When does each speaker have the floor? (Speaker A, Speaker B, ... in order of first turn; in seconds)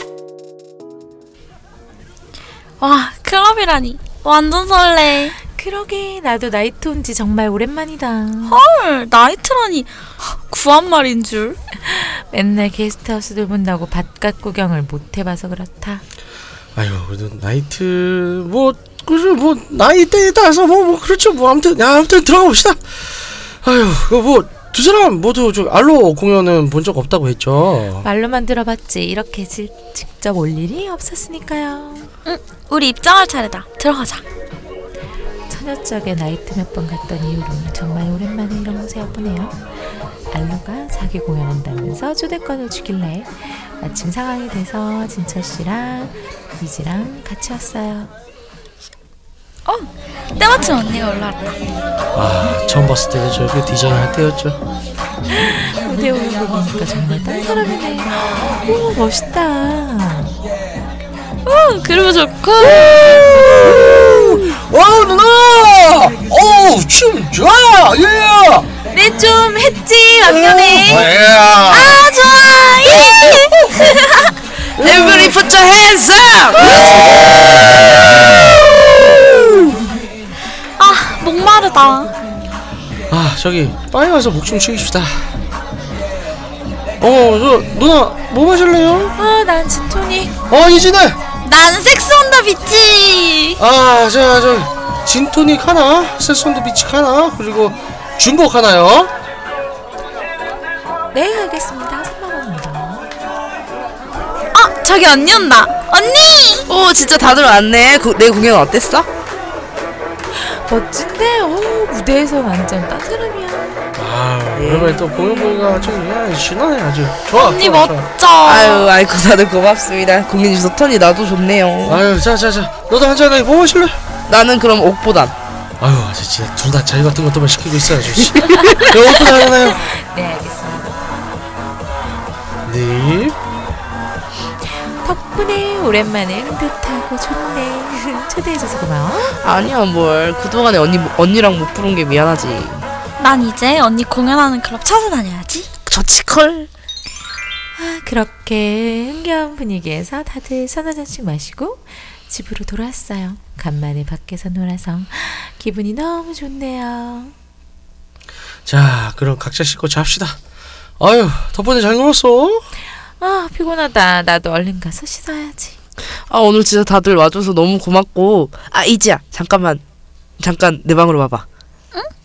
Speaker A: 2.8-5.3, 8.5-11.6, 32.2-34.2, 49.6-51.6, 61.4-63.6, 71.7-74.2, 80.8-82.1, 91.4-93.6, 104.5-106.7, 117.3-118.9, 143.2-145.7
Speaker B: 5.5-8.6, 11.8-16.0, 28.0-32.1, 35.5-39.6, 40.3-48.1, 55.3-60.4, 68.9-71.1, 89.2-90.3, 101.1-103.1, 110.3-113.9, 129.7-131.0, 135.0-139.3, 147.8-157.3, 163.2-165.7
Speaker C: 16.7-28.1, 52.1-54.6, 62.6-68.7, 70.2-72.0, 74.8-75.4, 83.1-85.4, 87.0-89.1, 90.5-91.2, 93.6-99.1, 114.0-118.1, 121.8-124.0, 125.8-129.9, 132.6-133.4, 158.7-160.4, 161.0-162.7
Speaker D: 74.8-77.2, 106.7-109.1, 114.5-115.0, 118.4-122.0, 124.3-125.3, 139.4-142.8, 145.9-146.7, 166.2-169.8, 170.4-171.4